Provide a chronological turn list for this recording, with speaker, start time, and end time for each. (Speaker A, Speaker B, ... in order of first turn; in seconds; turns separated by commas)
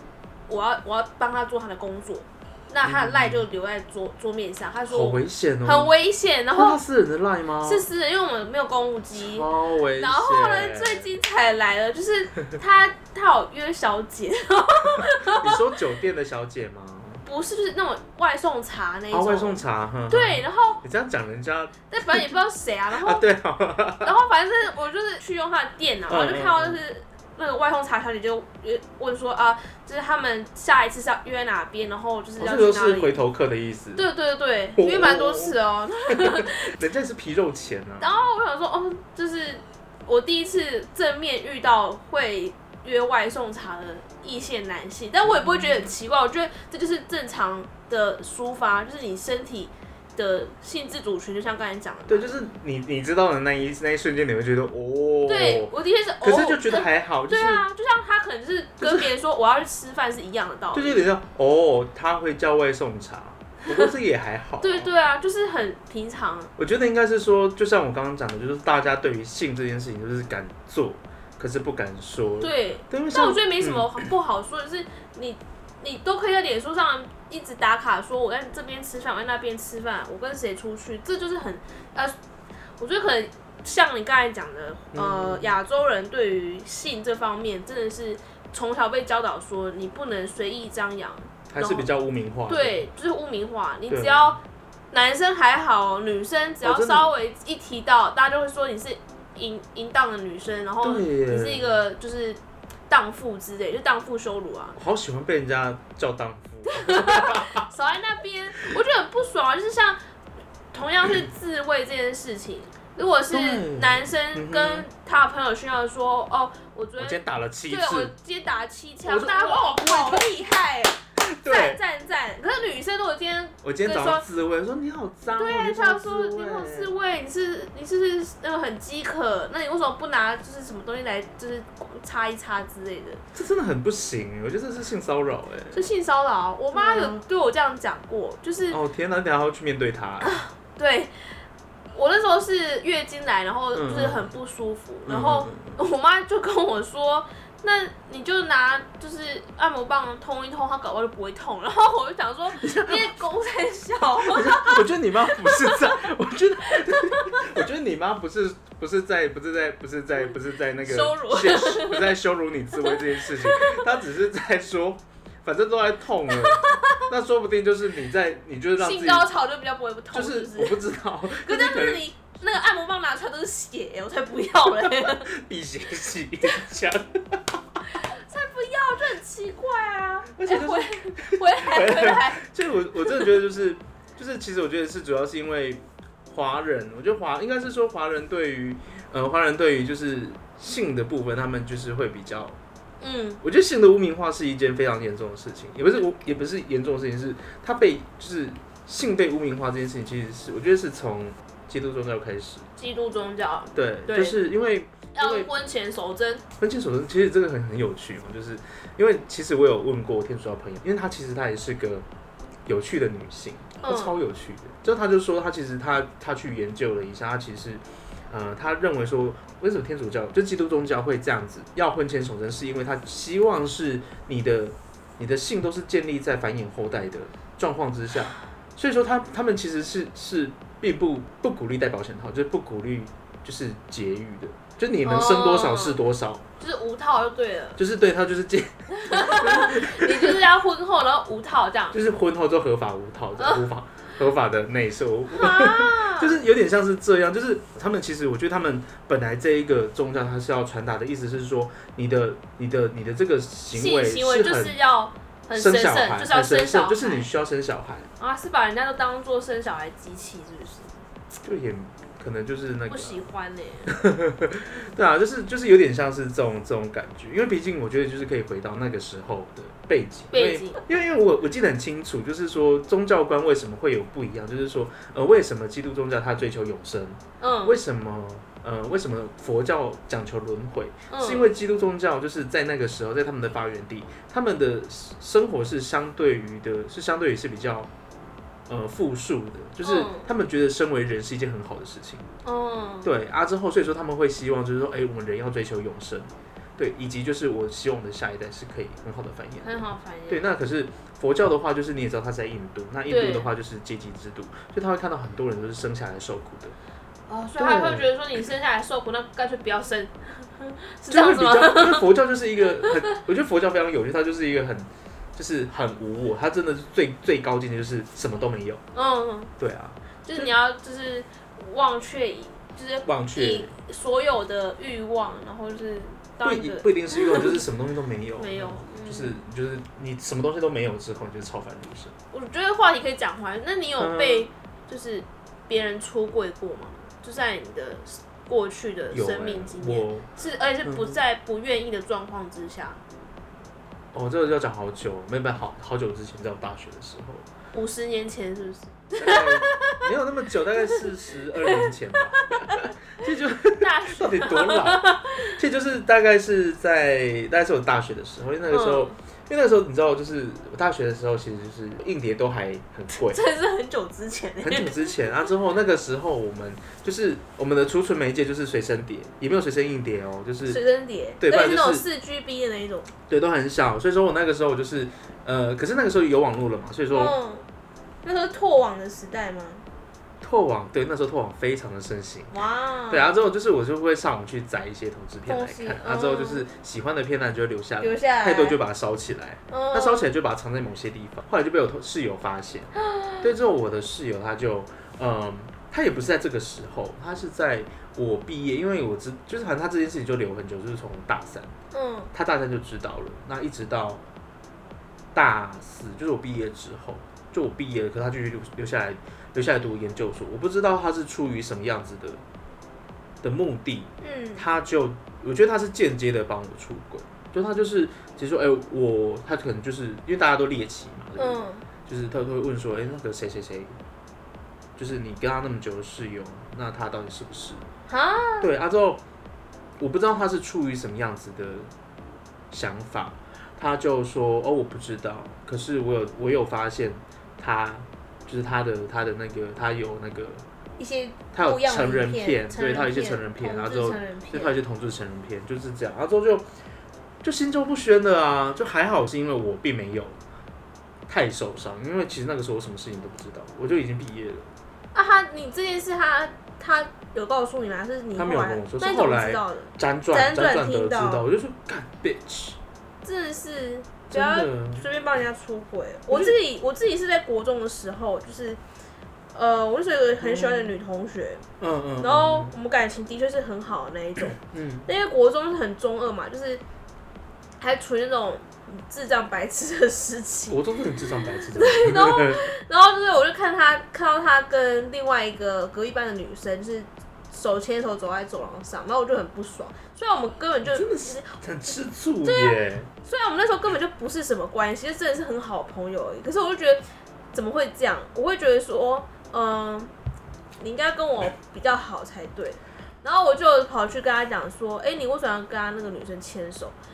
Speaker A: 0.5-6.8, Speaker B: 2.8-3.4, Speaker B: 4.9-5.9, Speaker B: 6.5-7.8, Speaker A: 7.6-15.6, Speaker B: 9.1-11.1, Speaker B: 15.0-17.2, Speaker A: 17.2-20.8, Speaker B: 19.1-22.2, Speaker A: 21.9-23.2, Speaker B: 23.0-24.1, Speaker A: 24.0-33.2, Speaker B: 26.1-26.8, Speaker B: 32.4-34.0, Speaker A: 34.0-36.7, Speaker B: 34.8-35.5, Speaker B: 36.1-38.2, Speaker A: 38.0-52.4, Speaker B: 45.2-45.9, Speaker B: 52.1-57.6, Speaker A: 55.2-61.0, Speaker B: 58.8-59.1, Speaker B: 60.7-64.9, Speaker A: 64.6-66.5, Speaker B: 66.6-74.0, Speaker A: 72.4-82.1, Speaker A: 82.8-91.9, Speaker B: 84.9-85.5, Speaker B: 91.5-92.8, Speaker A: 92.5-94.4, Speaker B: 93.9-94.4, Speaker A: 94.9-104.8, Speaker B: 96.6-97.1, Speaker B: 100.8-101.7, Speaker B: 104.8-107.6, Speaker A: 106.7-110.0, Speaker A: 110.7-124.2, Speaker B: 113.3-114.9, Speaker B: 117.0-118.1, Speaker B: 119.0-120.3, Speaker B: 121.2-121.8, Speaker B: 123.6-126.9, Speaker A: 125.3-133.2, Speaker B: 133.3-135.8, Speaker A: 135.7-138.8, Speaker B: 136.7-137.2, Speaker B: 138.7-140.4, Speaker A: 140.2-141.3, Speaker A: 141.9-156.0, Speaker B: 143.7-144.3, Speaker B: 145.1-145.8, Speaker B: 152.5-153.2, Speaker B: 154.2-169.3, Speaker A: 156.6-157.6, Speaker A: 160.8-162.2, Speaker A: 162.8-163.8, Speaker A: 166.3-167.1, Speaker A: 168.8-170.8, Speaker B: 170.1-172.0, Speaker A: 171.3-175.3, Speaker B: 174.8-177.6, Speaker A: 177.9-183.2, Speaker B: 180.3-192.6, Speaker A: 193.0-193.4, Speaker B: 193.4-202.7, Speaker A: 202.8-204.4, Speaker B: 203.7-205.5, Speaker A: 205.1-206.4, Speaker B: 206.6-212.0, Speaker B: 212.7-236.4, Speaker A: 213.8-214.2, Speaker A: 235.0-236.0, Speaker A: 236.6-237.8, Speaker B: 237.8-240.4, Speaker A: 238.9-242.0, Speaker B: 241.9-254.8, Speaker A: 243.4-243.6, Speaker A: 245.3-246.4, Speaker A: 253.7-257.3, Speaker B: 255.5-258.1, Speaker A: 258.2-261.0, Speaker B: 261.4-263.2, Speaker A: 262.9-263.9, Speaker B: 263.9-287.9, Speaker A: 270.3-270.8, Speaker A: 277.4-277.8, Speaker A: 281.1-281.5, Speaker B: 288.7-292.3, Speaker A: 289.8-290.3, Speaker A: 292.4-293.1, Speaker B: 293.0-306.7, Speaker A: 299.6-300.5, Speaker A: 303.1-303.5, Speaker A: 307.3-312.1, Speaker B: 307.6-308.1, Speaker B: 311.1-318.8, Speaker A: 312.8-313.1, Speaker A: 318.9-319.5, Speaker B: 319.6-320.5, Speaker A: 320.2-327.6, Speaker B: 323.0-323.7, Speaker B: 326.4-332.1, Speaker A: 328.4-329.4, Speaker A: 332.3-343.0, Speaker B: 334.0-334.5, Speaker B: 339.1-340.3, Speaker B: 340.8-341.2, Speaker B: 344.1-347.4, Speaker A: 347.7-350.1, Speaker B: 349.2-355.0, Speaker A: 351.6-352.9, Speaker A: 353.8-355.5, Speaker B: 355.5-363.4, Speaker A: 358.7-359.1, Speaker A: 363.1-365.0, Speaker B: 364.6-370.8, Speaker A: 370.7-373.1, Speaker B: 371.4-372.0, Speaker B: 373.3-377.4, Speaker A: 377.1-377.7, Speaker A: 378.2-379.9, Speaker B: 380.4-382.5, Speaker A: 382.5-383.3, Speaker B: 383.1-401.7, Speaker A: 385.4-386.6, Speaker A: 388.0-388.8, Speaker A: 389.7-390.3, Speaker A: 392.9-393.5, Speaker A: 401.9-402.3, Speaker B: 402.3-404.2, Speaker B: 405.3-412.4, Speaker B: 413.4-424.0, Speaker A: 414.2-414.6, Speaker A: 421.4-421.9, Speaker B: 425.0-427.8, Speaker A: 428.1-428.7, Speaker B: 428.6-429.2, Speaker B: 430.0-431.9, Speaker B: 432.7-440.6, Speaker A: 441.0-444.8, Speaker B: 441.5-446.6, Speaker B: 447.4-450.4, Speaker B: 451.3-454.7, Speaker A: 455.1-461.4, Speaker B: 458.3-462.8, Speaker A: 463.2-468.8, Speaker B: 464.3-465.1, Speaker B: 466.3-466.6, Speaker A: 469.5-471.6, Speaker B: 470.4-470.9, Speaker B: 471.8-472.7, Speaker A: 472.2-476.8, Speaker B: 474.5-475.1, Speaker A: 477.8-480.8, Speaker B: 480.7-482.7, Speaker A: 481.6-491.5, Speaker B: 490.9-493.1, Speaker A: 492.4-500.1, Speaker A: 500.8-506.9